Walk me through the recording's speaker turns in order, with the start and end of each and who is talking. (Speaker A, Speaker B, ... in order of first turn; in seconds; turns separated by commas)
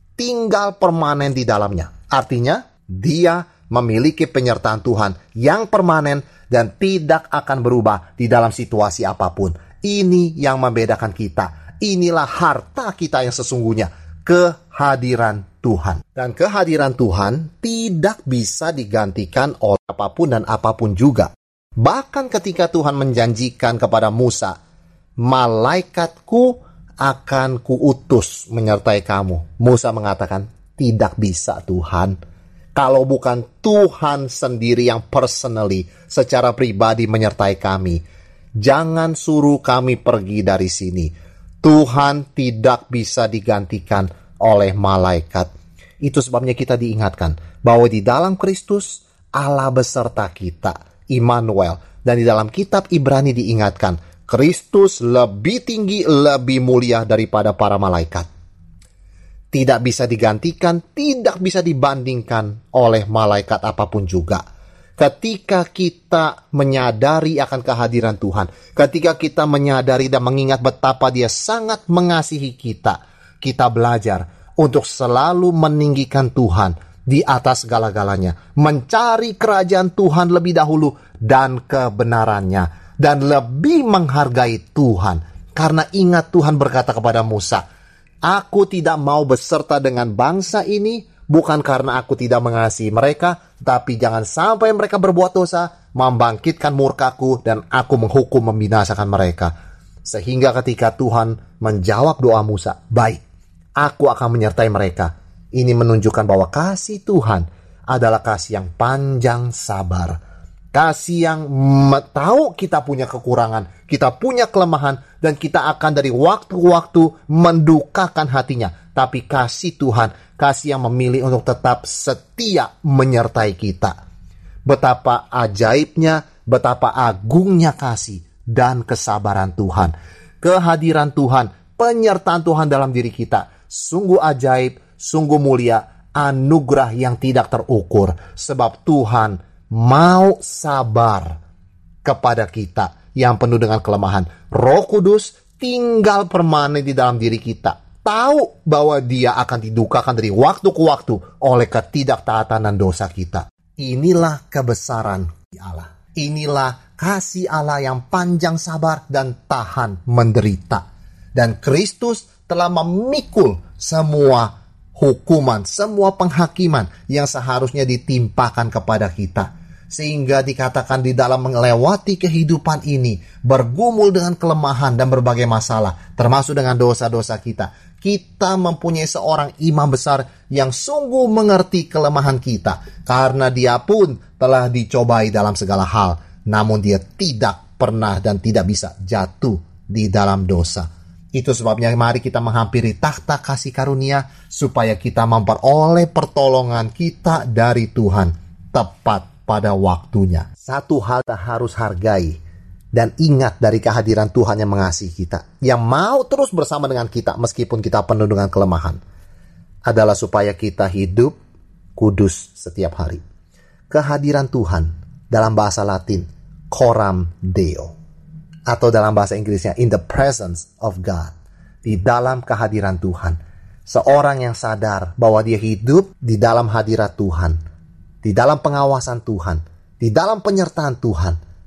Speaker A: 0.2-24.5, Speaker A: 25.2-32.1, Speaker A: 32.8-38.0, Speaker A: 38.6-45.5, Speaker A: 46.0-58.3, Speaker A: 59.5-64.4, Speaker A: 65.0-87.6, Speaker A: 88.2-99.5, Speaker A: 100.0-103.2, Speaker A: 103.8-110.2, Speaker A: 110.7-123.9, Speaker A: 124.7-141.4, Speaker A: 142.0-160.8, Speaker A: 161.3-202.4, Speaker A: 202.9-209.0, Speaker A: 209.9-211.3, Speaker A: 211.9-213.2, Speaker A: 213.9-217.9, Speaker A: 218.7-221.3, Speaker A: 221.8-227.6, Speaker A: 228.2-231.4